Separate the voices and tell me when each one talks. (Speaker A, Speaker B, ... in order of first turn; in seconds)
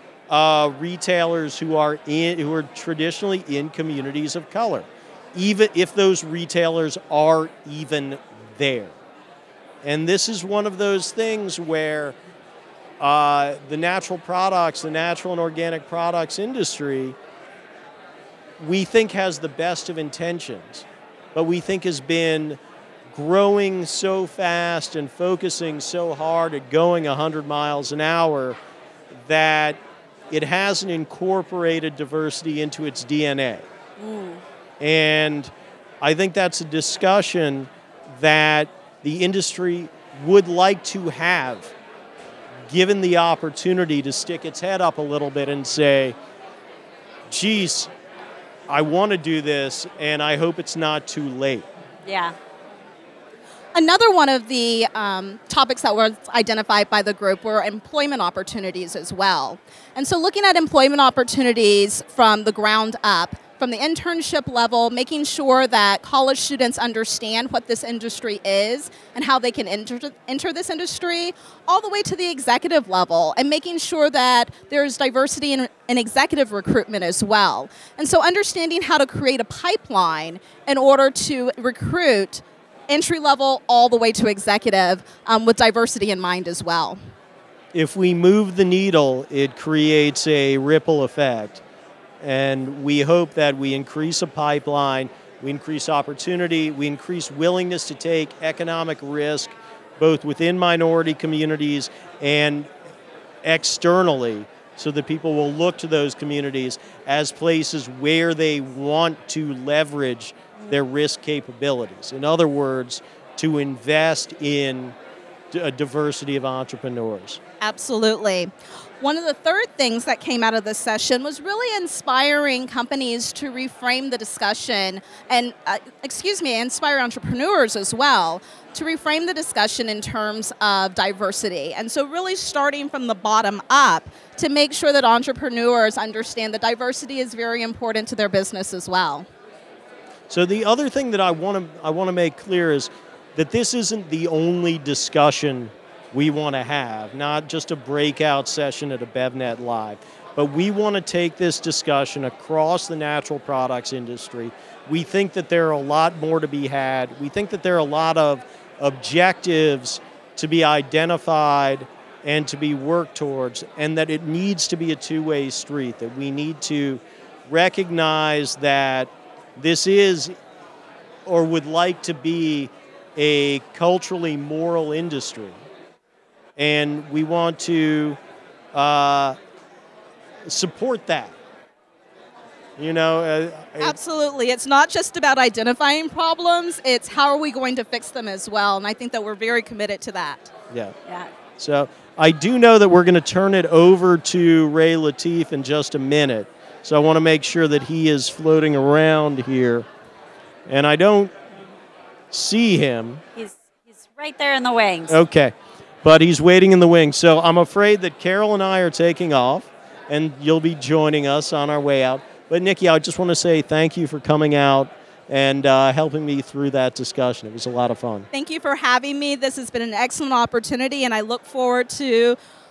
Speaker A: 0.3-9.0, 9.8-12.2, 13.0-17.2, 18.6-28.6, 29.1-29.8, 30.3-33.7, 34.8-41.7, 42.7-46.2, 47.3-47.9, 48.7-51.7, 87.7-91.6, 92.2-102.7, 103.4-115.0, 115.5-117.4, 140.3-170.3, 171.3-175.6, 176.6-178.2, 178.7-179.4, 180.5-181.3, 182.8-184.0, 190.7-191.0, 191.6-199.9, 200.7-201.3, 202.3-203.2, 205.1-218.3
Speaker B: 34.0-34.4, 52.0-52.4, 191.1-191.3, 203.4-205.2
Speaker C: 53.8-87.0, 117.6-139.3, 183.8-190.5, 218.3-222.4